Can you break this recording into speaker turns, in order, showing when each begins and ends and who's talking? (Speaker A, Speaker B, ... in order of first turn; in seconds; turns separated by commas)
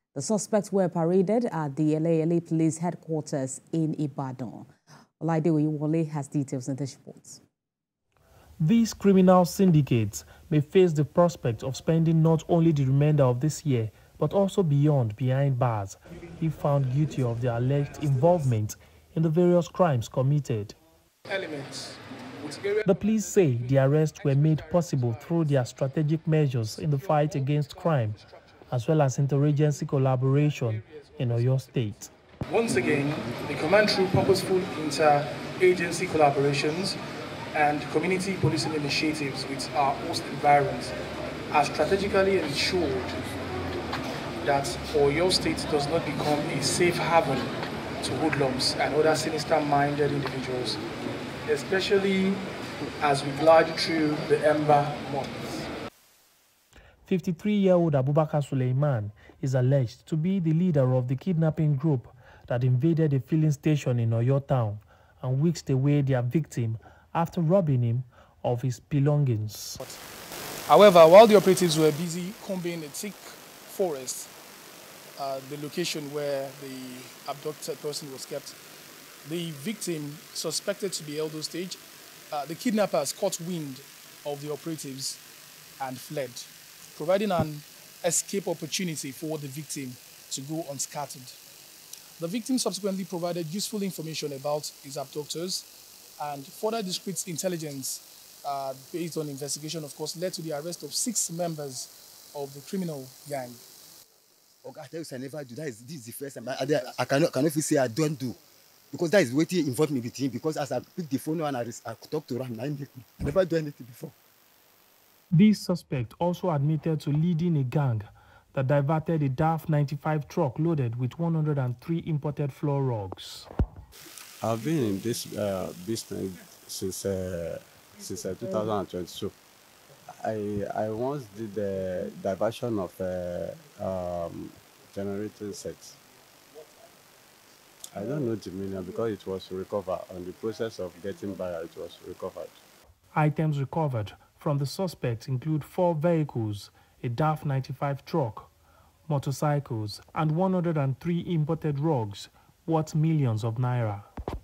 Speaker A: 0.1-4.7, Speaker A: 5.2-7.4, Speaker B: 8.6-20.8, Speaker C: 21.3-25.7, Speaker B: 22.9-28.2, Speaker C: 26.7-28.4, Speaker B: 28.7-32.1, Speaker C: 30.3-37.0, Speaker C: 37.5-40.9, Speaker C: 41.5-43.2, Speaker C: 44.4-50.8, Speaker C: 51.5-52.4, Speaker C: 53.0-55.7, Speaker B: 57.0-69.8, Speaker C: 70.7-74.3, Speaker C: 75.2-78.5, Speaker C: 79.2-81.8, Speaker C: 82.3-85.2, Speaker C: 85.8-91.3, Speaker C: 92.2-95.7, Speaker C: 96.2-103.6, Speaker D: 104.6-108.4, Speaker D: 108.9-114.1, Speaker B: 115.3-123.5, Speaker E: 124.4-129.3, Speaker E: 130.2-136.0, Speaker E: 137.9-142.6, Speaker B: 143.1-148.5, Speaker B: 149.1-154.1